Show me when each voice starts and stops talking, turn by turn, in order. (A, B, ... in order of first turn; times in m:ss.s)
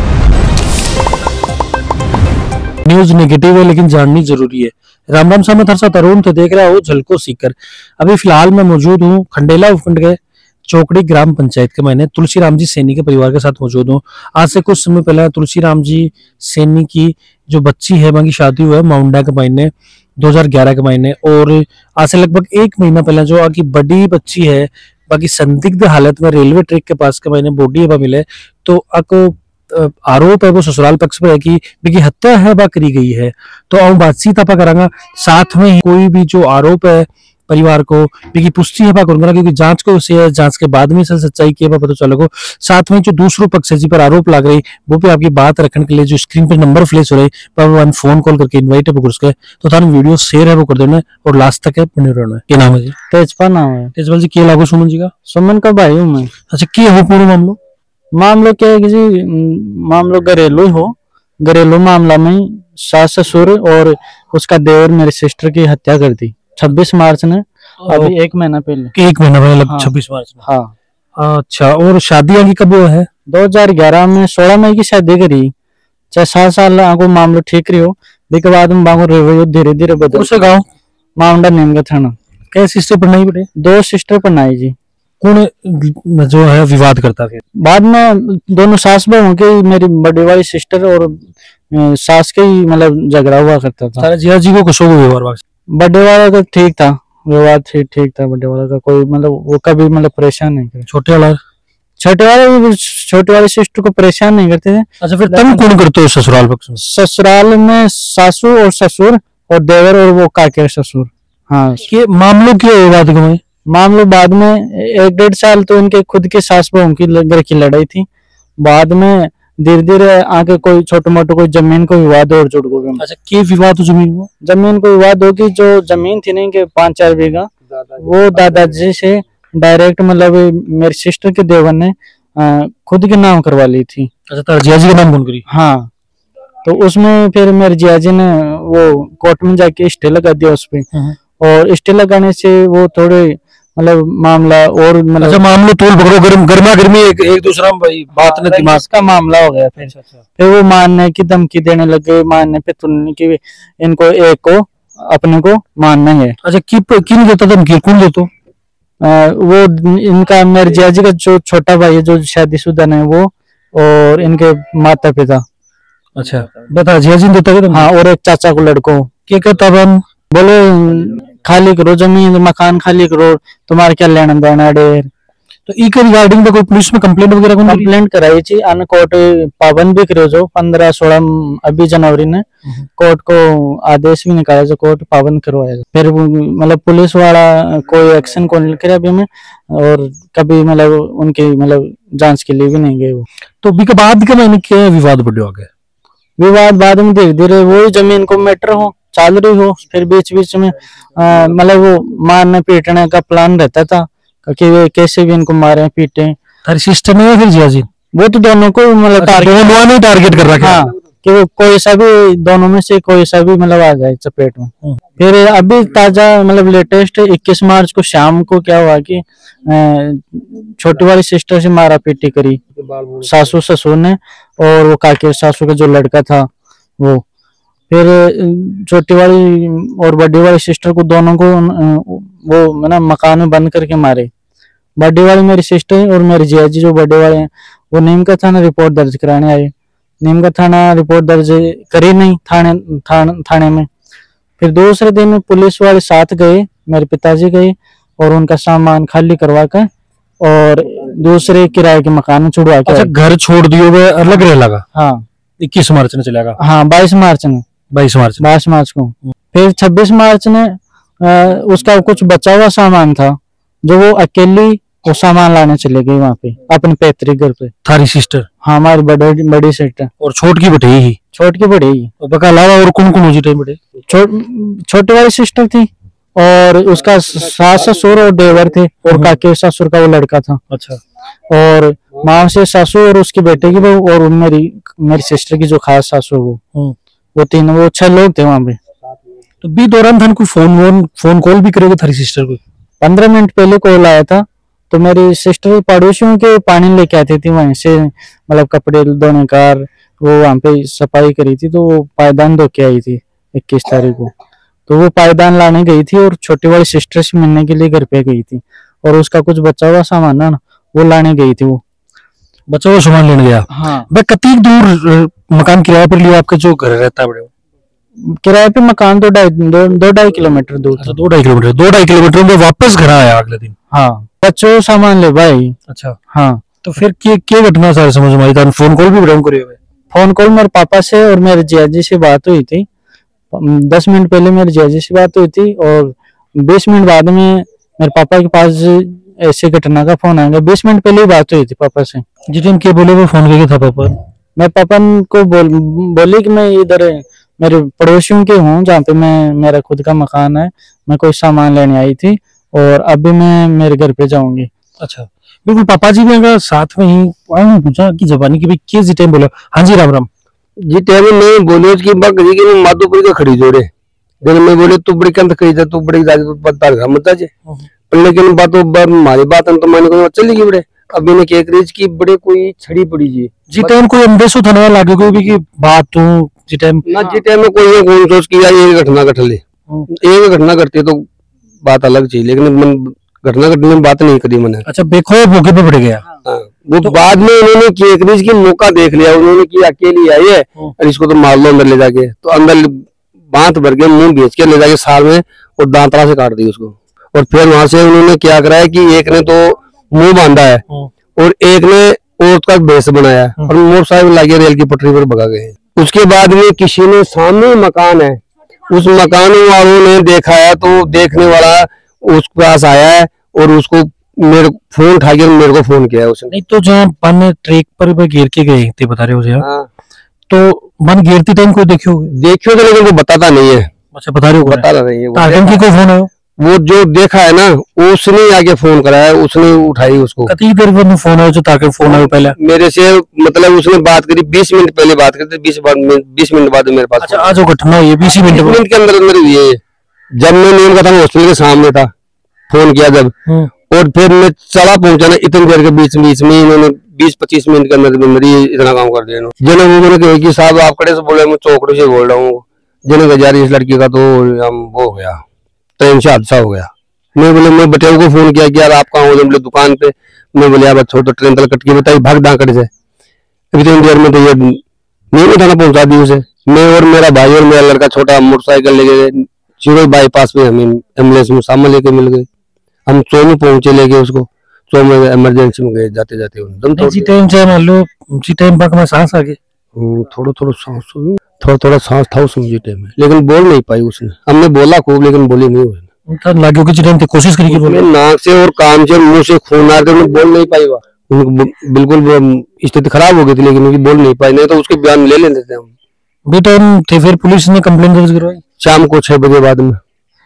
0:02.8-0:53.0 A
0:53.1-0:53.9 B
0:54.0-0:55.1 A
0:55.3-0:56.3 B
0:56.5-0:57.6 A
0:58.2-1:08.9 B
1:07.8-1:08.1 A
1:08.9-1:10.4 A
1:10.4-1:10.7 B
1:11.2-1:13.1 A
1:13.3-1:15.5 B
1:16.1-1:20.4 B
1:20.1-1:20.6 A
1:21.2-1:22.2 B
1:22.5-1:23.5 A
1:23.6-1:24.8 B
1:25.2-1:27.4 A
1:27.6-1:34.1 B
1:34.0-1:35.4 A
1:35.7-1:40.9 B
1:40.9-1:41.4 A
1:42.0-1:45.6 B
1:45.0-1:46.8 A
1:46.8-1:51.9 B
1:51.8-1:53.4 A
1:53.7-1:58.1 B
1:58.6-2:03.0 B
2:03.0-2:04.3 A
2:04.4-2:14.1 B
2:14.3-2:15.4 A
2:15.5-2:15.9 B
2:16.6-2:20.9 B
2:21.4-2:25.4 B
2:25.2-2:28.8 A
2:28.2-2:36.4 B
2:36.4-2:38.3 A
2:39.0-2:45.4 B
2:46.2-2:47.9 A
2:47.7-2:49.1 B
2:49.3-2:50.0 A
2:50.3-2:55.1 B
2:55.7-2:57.9 A
2:57.6-3:02.4 B
3:03.0-3:13.3 B
3:13.6-3:15.7 A
3:16.4-3:26.4 B
3:26.7-3:27.9 A
3:28.1-3:29.8 B
3:29.2-3:30.9 A
3:30.6-3:42.6 B
3:42.8-3:43.5 C
3:43.2-3:46.5 B
3:47.9-3:54.3 B
3:55.0-4:03.9 B
4:04.6-4:09.9 B
4:10.4-4:13.1 B
4:12.9-4:14.8 A
4:14.9-4:15.2 B
4:15.6-4:16.6 A
4:16.6-4:17.7 B
4:17.9-4:18.4 A
4:18.4-4:27.7 B
4:27.8-4:28.5 A
4:28.6-4:30.1 B
4:30.2-4:31.2 A
4:31.3-4:32.1 B
4:32.2-4:33.8 A
4:34.1-4:40.6 B
4:39.1-4:39.3 A
4:40.7-4:41.0 A
4:41.5-4:46.6 B
4:47.4-4:48.8 B
4:49.6-4:52.6 A
4:53.0-5:04.3 B
5:04.9-5:11.8 B
5:12.7-5:17.5 A
5:13.7-5:14.1 B
5:18.3-5:21.2 B
5:21.0-5:23.8 A
5:23.9-5:25.8 B
5:25.9-5:26.2 A
5:26.3-5:26.6 B
5:26.8-5:29.8 A
5:30.1-5:32.9 B
5:33.5-5:42.2 B
5:42.5-5:44.2 A
5:44.6-5:54.7 B
5:55.0-6:00.3 A
6:00.8-6:03.9 C
6:04.4-6:07.5 C
6:08.1-6:13.9 C
6:13.7-6:17.0 A
6:17.1-6:21.3 C
6:21.8-6:24.8 C
6:24.9-6:26.3 A
6:26.4-6:40.8 C
6:41.4-6:56.5 C
6:56.5-6:59.6 A
6:59.6-6:59.9 C
7:00.5-7:02.3 A
7:02.3-7:03.9 C
7:04.1-7:06.3 A
7:04.6-7:05.8 C
7:06.6-7:10.5 C
7:10.5-7:12.6 A
7:12.1-7:17.6 C
7:17.2-7:18.8 A
7:18.4-7:19.8 C
7:20.4-7:22.1 C
7:22.7-7:23.3 C
7:23.9-7:35.4 C
7:36.0-7:42.9 C
7:43.7-7:44.8 C
7:45.3-7:52.5 C
7:53.1-7:57.3 C
7:57.0-7:59.6 A
8:00.0-8:06.1 C
8:06.3-8:08.0 A
8:07.7-8:15.9 C
8:16.5-8:18.6 A
8:18.8-8:20.0 C